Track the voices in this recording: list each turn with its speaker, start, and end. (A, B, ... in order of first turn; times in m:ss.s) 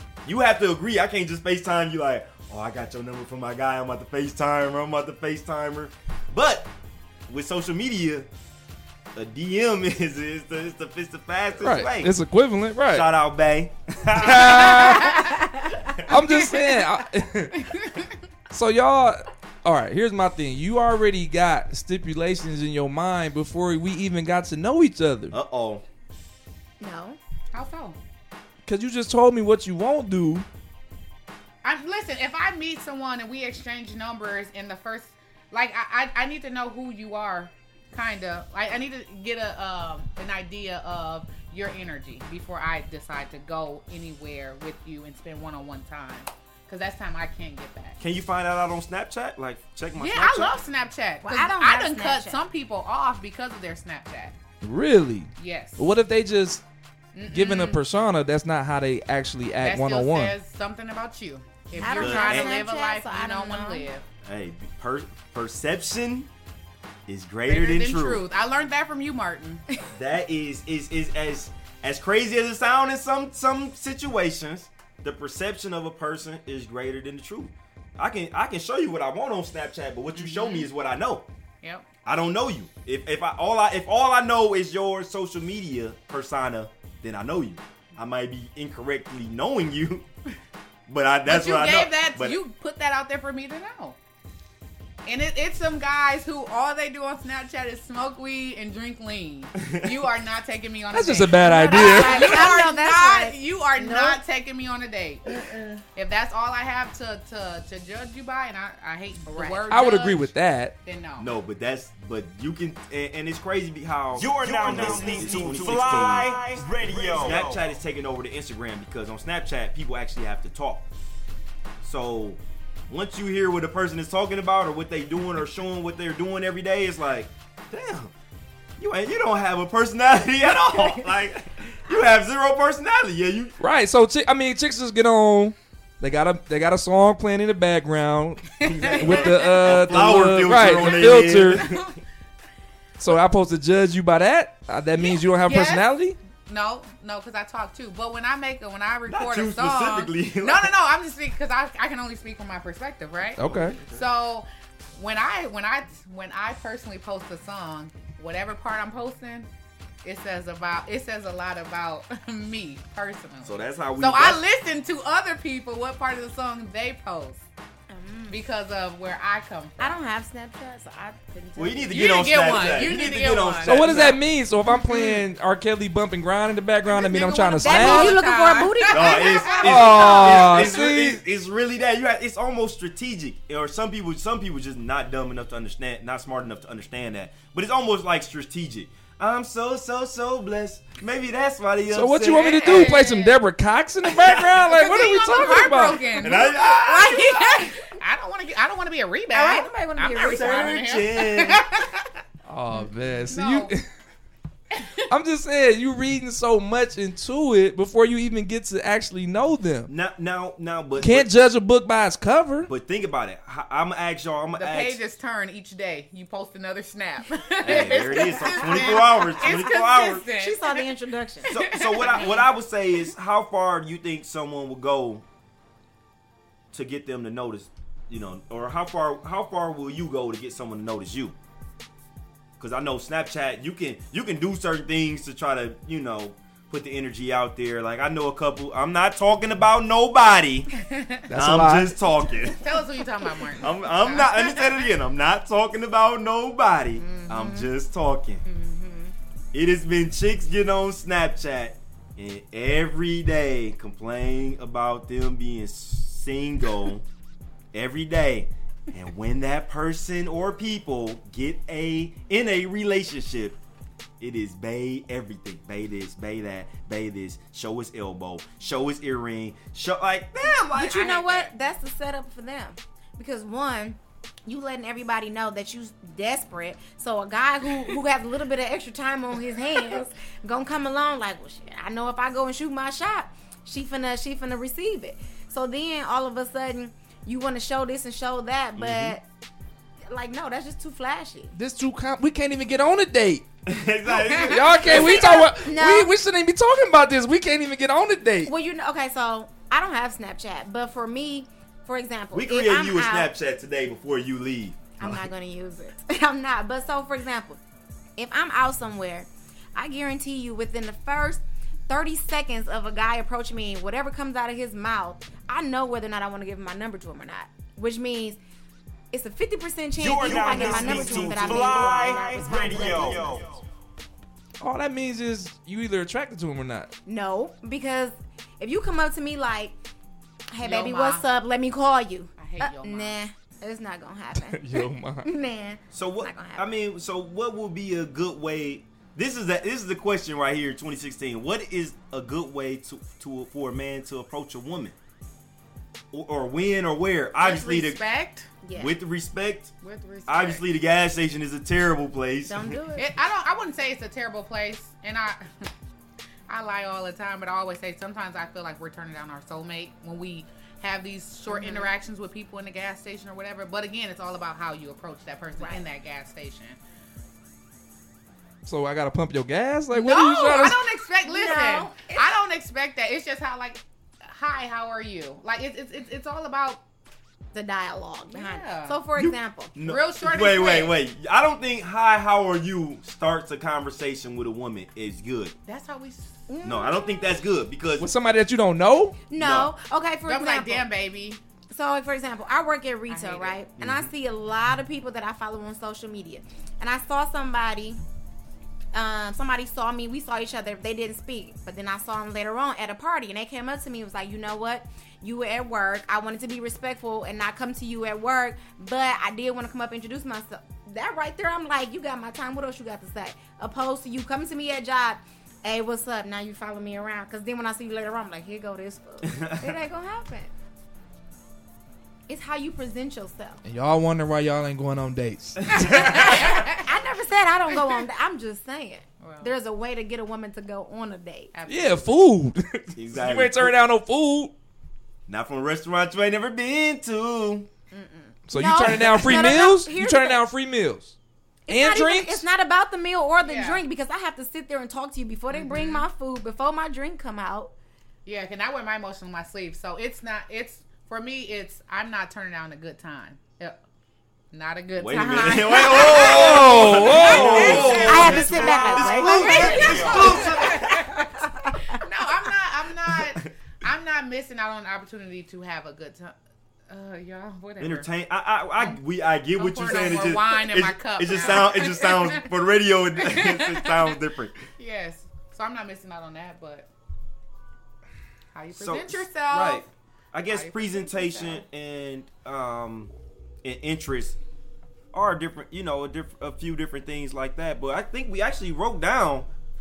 0:00.2-0:06.7 A
0:07.3-0:08.3 A
0:09.1-0:12.1 A
0:11.6-0:13.1 B
0:12.9-0:14.8 A
0:14.1-0:15.4 B
0:14.8-0:15.3 C
0:16.1-0:17.6 B
0:16.1-0:16.8 C
0:17.6-0:18.1 C
0:18.5-0:25.3 B
0:25.3-0:25.8 A
0:26.8-0:27.2 D
0:27.5-0:28.0 C
0:28.6-0:30.4 B
0:31.6-0:48.0 C
0:48.0-0:50.6 A
0:50.0-0:54.3 C
0:51.2-0:52.4 D
0:54.6-0:56.6 B
0:55.4-0:55.8 C
0:57.1-0:57.8 C
0:57.3-1:00.3 B
0:59.6-1:04.0 C
1:01.8-1:03.9 D
1:01.9-1:02.6 A
1:04.2-1:06.3 A
1:07.1-1:08.2 A
1:07.4-1:09.6 C
1:09.9-1:21.2 A
1:20.2-1:20.7 C
1:21.6-1:21.9 C
1:22.0-1:30.1 A
1:30.9-1:32.4 A
1:31.2-1:34.0 C
1:35.0-1:45.2 C
1:39.6-1:40.0 A
1:40.9-1:42.5 B
1:41.7-1:44.2 D
1:45.9-1:50.3 C
1:49.3-1:49.6 D
1:49.7-1:50.7 B
1:50.8-1:51.3 C
1:51.2-1:56.3 A
1:54.1-1:57.6 E
1:57.0-2:00.8 A
2:01.8-2:08.1 A
2:08.8-2:13.5 A
2:13.6-2:21.6 B
2:18.6-2:20.0 C
2:18.6-2:21.8 A
2:20.7-2:21.9 C
2:23.0-2:26.2 B
2:25.0-2:25.8 C
2:26.4-2:39.5 C
2:29.1-2:30.7 A
2:33.4-2:33.8 B
2:33.4-2:34.1 A
2:40.0-2:47.4 C
2:43.4-2:44.4 A
2:47.9-2:48.4 D
2:48.3-2:50.0 C
2:49.8-2:52.2 D
2:51.6-2:54.2 A
2:51.9-2:54.2 C
2:53.6-2:58.2 B
2:54.9-2:55.2 C
2:56.8-3:00.5 C
2:57.6-2:59.6 D
2:58.9-3:12.8 A
2:59.6-3:01.2 B
3:11.9-3:16.0 B
3:12.3-3:13.4 C
3:14.1-3:14.5 A
3:14.7-3:16.7 C
3:16.1-3:17.6 A
3:16.7-3:17.9 D
3:17.9-3:22.2 C
3:19.3-3:20.8 D
3:20.2-3:21.6 A
3:22.5-3:23.8 B
3:22.8-3:23.7 C
3:24.7-3:25.0 C
3:25.1-3:29.9 B
3:29.9-3:31.3 A
3:31.0-3:32.7 B
3:32.6-3:35.0 A
3:34.5-3:40.9 C
3:37.6-3:40.2 A
3:37.7-3:39.8 D
3:40.4-3:41.5 D
3:41.4-3:45.2 A
3:41.5-3:42.4 C
3:46.7-3:51.4 A
3:52.6-4:00.7 A
4:00.8-4:01.2 C
4:01.3-4:01.9 B
4:01.3-4:02.6 A
4:02.6-4:04.9 C
4:03.6-4:08.4 A
4:07.0-4:07.7 D
4:08.4-4:09.1 D
4:09.5-4:17.0 A
4:17.7-4:23.6 A
4:24.2-4:31.5 A
4:30.7-4:49.2 D
4:48.8-4:49.2 A
4:50.1-4:51.5 D
4:51.5-4:53.4 B
4:53.6-4:55.4 A
4:54.1-4:55.2 C
4:54.5-4:58.5 B
4:54.9-4:56.1 D
4:58.4-5:03.3 D
5:02.3-5:05.2 A
5:05.0-5:07.6 D
5:08.2-5:18.4 D
5:19.1-5:23.4 D
5:20.0-5:23.6 E
5:20.2-5:21.3 C
5:24.6-5:26.9 B
5:27.0-5:29.7 D
5:30.5-5:36.7 D
5:30.6-5:31.2 C
5:32.4-5:33.2 C
5:34.5-5:35.3 B
5:35.9-5:44.9 A
5:46.1-5:48.0 A
5:47.4-5:48.5 C
5:48.6-5:49.0 D
5:48.7-5:49.7 A
5:49.8-5:50.6 C
5:50.3-5:52.8 A
5:52.5-5:53.1 D
5:53.0-5:55.7 C
5:56.5-6:06.8 C
6:01.5-6:01.9 D
6:05.6-6:05.8 D
6:08.6-6:10.8 B
6:10.0-6:16.8 C
6:10.0-6:10.6 D
6:11.2-6:12.3 D
6:17.5-6:19.7 D
6:18.3-6:19.0 C
6:19.2-6:25.6 A
6:19.8-6:20.9 C
6:25.6-6:26.5 C
6:26.5-6:26.9 D
6:26.6-6:28.1 A
6:28.0-6:29.2 B
6:29.3-6:30.8 D
6:29.4-6:29.7 A
6:30.2-6:31.4 C
6:31.7-6:38.0 D
6:33.1-6:33.6 C
6:33.8-6:34.1 A
6:38.9-7:00.5 D
6:59.2-6:59.8 A
7:02.3-7:03.6 D
7:03.6-7:06.5 B
7:05.9-7:06.8 C
7:06.0-7:11.5 D
7:09.2-7:09.5 C
7:11.5-7:12.1 C
7:11.7-7:14.5 B
7:12.9-7:13.7 A
7:15.3-7:17.7 A
7:18.0-7:20.4 D
7:18.5-7:21.2 B
7:21.7-7:27.7 D
7:21.7-7:22.4 B
7:23.4-7:23.8 C
7:25.5-7:26.1 C
7:28.2-7:33.8 C
7:34.5-7:41.5 C
7:35.0-7:41.0 A
7:35.1-7:36.3 D
7:36.0-7:38.2 B
7:37.2-7:42.0 D
7:39.4-7:40.3 E
7:42.0-7:46.4 C
7:43.2-7:43.4 A
7:46.9-7:48.1 C
7:47.8-7:54.7 A
7:49.6-7:52.4 C
7:53.2-7:54.2 C
7:54.8-7:56.9 C
7:58.5-7:59.9 C
7:58.7-8:03.1 A
8:00.5-8:01.6 C
8:03.6-8:04.4 A
8:05.1-8:09.5 A